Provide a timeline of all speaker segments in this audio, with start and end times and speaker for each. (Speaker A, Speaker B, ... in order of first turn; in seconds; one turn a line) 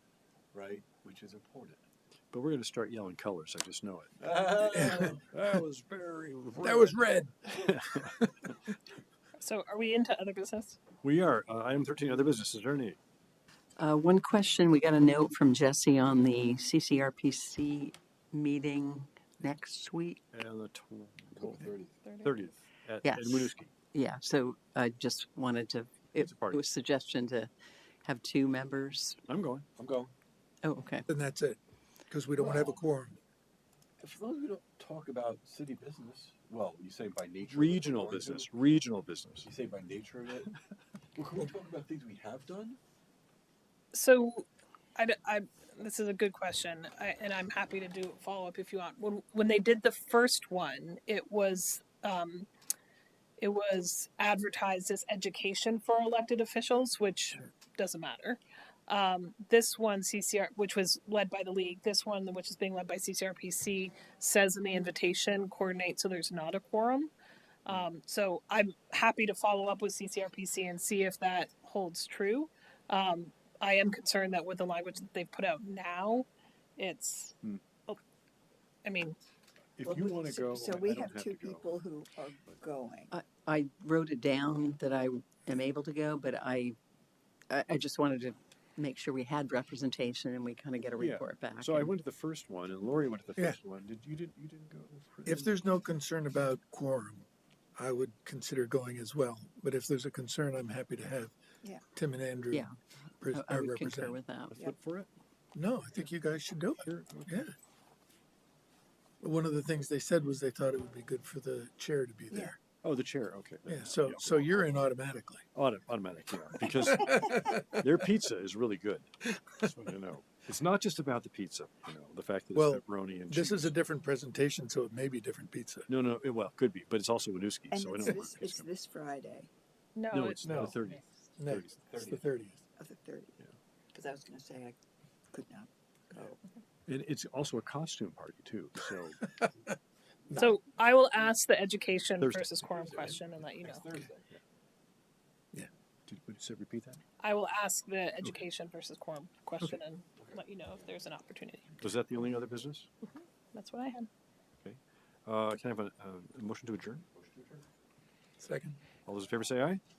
Speaker A: 0.5-1.8
Speaker B: 2.3-4.3
Speaker A: 4.2-5.2
Speaker C: 4.7-5.2
Speaker B: 5.3-7.0
Speaker C: 6.6-8.6
Speaker B: 7.5-8.1
Speaker D: 9.4-10.8
Speaker B: 11.0-13.0
Speaker E: 13.8-20.2
Speaker B: 20.3-21.7
Speaker A: 21.4-22.0
Speaker D: 22.0-22.5
Speaker B: 22.2-23.8
Speaker E: 23.0-27.5
Speaker B: 26.1-26.6
Speaker E: 28.0-29.2
Speaker B: 29.3-29.7
Speaker A: 29.8-30.1
Speaker E: 30.6-31.1
Speaker C: 31.1-31.6
Speaker C: 32.1-33.2
Speaker A: 32.4-32.8
Speaker A: 34.0-38.5
Speaker B: 37.4-39.5
Speaker A: 39.4-40.5
Speaker A: 41.1-42.8
Speaker D: 43.9-52.5
Speaker D: 53.4-67.1
Speaker D: 67.7-77.3
Speaker D: 78.8-79.2
Speaker B: 79.8-81.8
Speaker F: 79.8-83.1
Speaker E: 83.1-86.8
Speaker E: 87.5-92.0
Speaker B: 91.0-95.5
Speaker C: 95.2-101.3
Speaker C: 101.9-102.7
Speaker C: 103.2-104.2
Speaker E: 103.3-104.5
Speaker F: 104.5-104.8
Speaker B: 104.5-105.1
Speaker C: 105.5-107.5
Speaker B: 106.8-107.4
Speaker C: 109.2-112.6
Speaker B: 112.8-114.5
Speaker C: 113.7-115.4
Speaker B: 115.5-123.7
Speaker C: 116.8-117.9
Speaker C: 119.4-119.7
Speaker C: 122.5-125.9
Speaker B: 125.9-128.7
Speaker F: 127.7-129.5
Speaker D: 129.9-130.6
Speaker B: 130.1-131.9
Speaker C: 130.4-130.8
Speaker C: 131.4-132.6
Speaker A: 131.8-132.2
Speaker F: 132.8-133.4
Speaker F: 133.9-134.8
Speaker F: 135.3-136.4
Speaker B: 136.9-139.2
Speaker C: 139.2-139.7
Speaker C: 140.3-140.5
Speaker D: 140.3-143.8
Speaker B: 142.2-143.2
Speaker A: 142.7-144.3
Speaker B: 146.1-147.0
Speaker D: 147.2-151.8
Speaker B: 151.8-152.9
Speaker D: 153.0-154.1
Speaker B: 154.6-157.0
Speaker A: 157.1-157.6
Speaker C: 158.4-158.8
Speaker B: 159.1-159.8